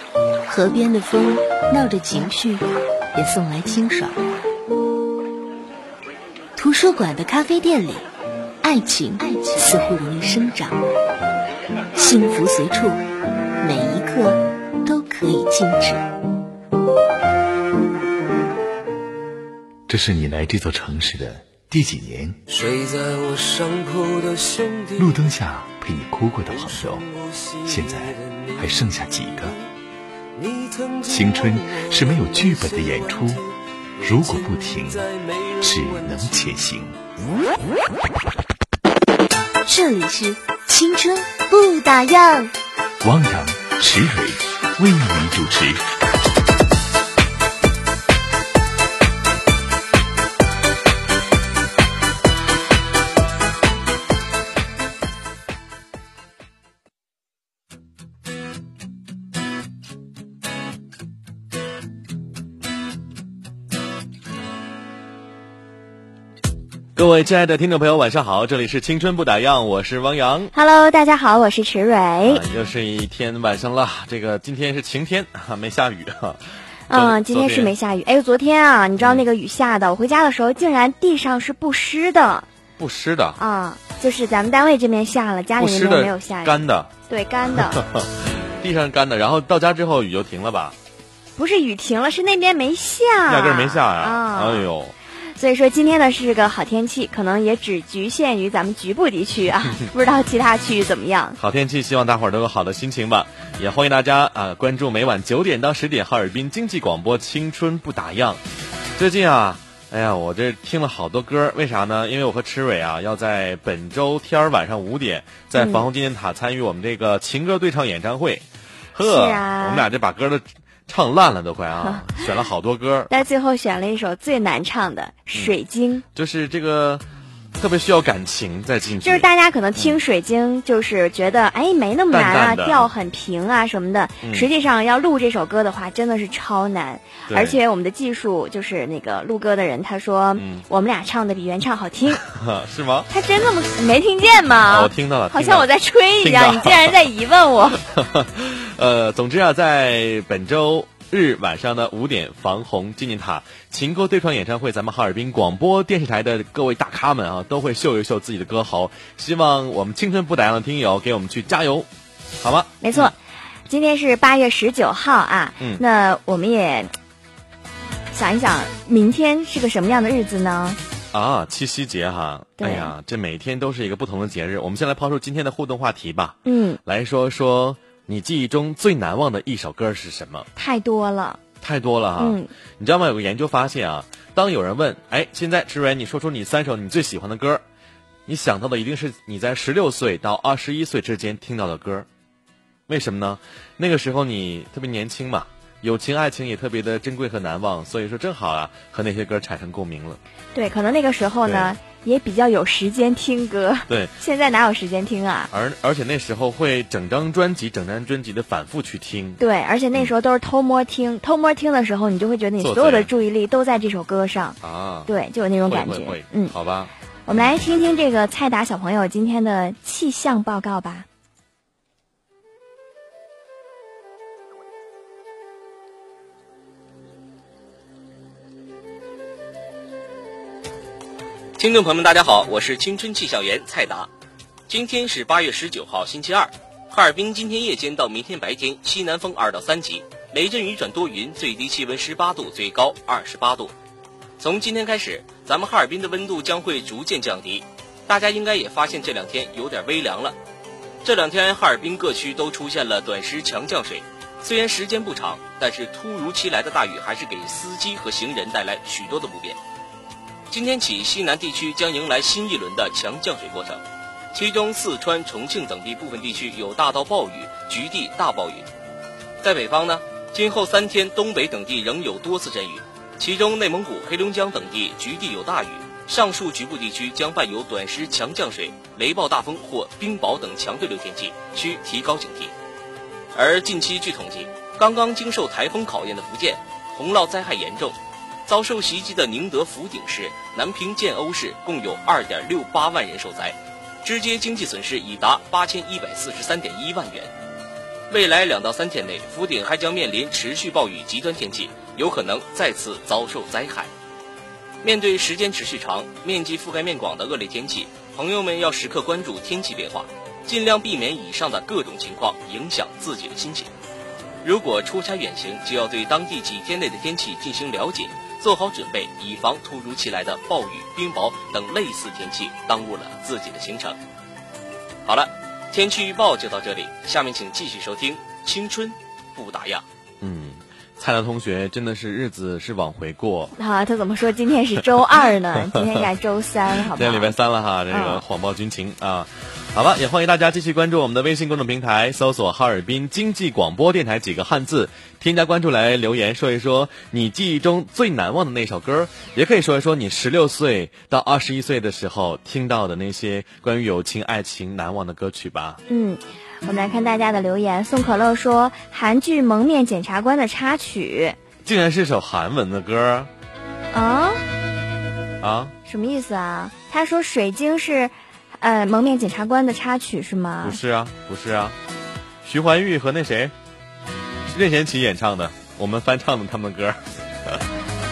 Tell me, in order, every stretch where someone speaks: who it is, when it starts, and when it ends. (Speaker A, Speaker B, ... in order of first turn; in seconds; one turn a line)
Speaker A: 0.5-4.2
Speaker A: 6.6-8.1
Speaker A: 8.6-10.8
Speaker A: 11.9-13.0
Speaker A: 13.6-16.0
Speaker B: 19.9-22.4
Speaker C: 22.5-25.2
Speaker B: 25.0-27.0
Speaker C: 26.5-29.5
Speaker B: 27.7-29.5
Speaker C: 30.4-36.4
Speaker B: 31.1-33.4
Speaker B: 34.0-35.0
Speaker B: 35.6-37.0
Speaker A: 39.6-42.5
Speaker B: 43.0-45.9
Speaker D: 67.0-70.5
Speaker E: 70.5-72.4
Speaker D: 72.2-77.7
Speaker E: 76.9-82.5
Speaker D: 79.0-79.2
Speaker D: 82.8-83.4
Speaker E: 83.4-87.8
Speaker D: 85.6-86.9
Speaker D: 87.5-90.8
Speaker E: 91.4-94.7
Speaker D: 93.3-95.0
Speaker E: 95.3-101.4
Speaker D: 101.4-108.4
Speaker D: 109.0-123.1
Speaker E: 115.6-115.9
Speaker E: 119.0-119.9
Speaker E: 121.8-122.2
Speaker E: 123.1-126.0
Speaker D: 126.2-127.0
Speaker D: 127.6-130.0
Speaker E: 129.0-142.2
Speaker D: 132.1-132.9
Speaker D: 134.2-134.5
Speaker D: 137.3-137.6
Speaker D: 140.4-140.7
Speaker D: 142.2-143.1
Speaker E: 143.1-147.8
Speaker D: 144.7-147.0
Speaker D: 147.8-161.9
Speaker D: 162.4-163.1
Speaker E: 162.8-163.2
Speaker E: 163.7-166.9
Speaker E: 168.1-170.8
Speaker D: 171.1-180.5
Speaker E: 172.6-172.9
Speaker E: 176.4-176.8
Speaker E: 180.6-181.4
Speaker D: 181.6-187.6
Speaker E: 182.2-182.5
Speaker D: 188.3-192.1
Speaker D: 192.9-200.2
Speaker E: 200.6-205.5
Speaker D: 201.5-201.7
Speaker D: 203.9-204.1
Speaker D: 205.5-209.4
Speaker E: 209.4-216.5
Speaker D: 212.6-213.1
Speaker D: 214.6-215.1
Speaker D: 215.7-217.5
Speaker E: 217.3-221.1
Speaker F: 231.6-234.1
Speaker F: 234.7-243.7
Speaker F: 244.4-250.4
Speaker F: 251.0-259.6
Speaker F: 260.5-263.8
Speaker F: 264.3-268.6
Speaker F: 269.4-282.5
Speaker F: 283.3-288.0
Speaker F: 288.5-297.3
Speaker F: 298.1-303.9
Speaker F: 304.8-313.7
Speaker F: 314.4-324.0
Speaker F: 325.1-329.8
Speaker D: 330.2-333.5
Speaker E: 333.6-337.4
Speaker D: 335.6-336.1
Speaker D: 336.9-355.8
Speaker E: 337.9-338.2
Speaker E: 355.9-361.4
Speaker D: 361.6-363.3
Speaker E: 363.9-364.4
Speaker D: 365.4-365.7
Speaker E: 365.9-370.8
Speaker D: 370.6-371.8
Speaker D: 372.4-373.5
Speaker D: 374.5-377.6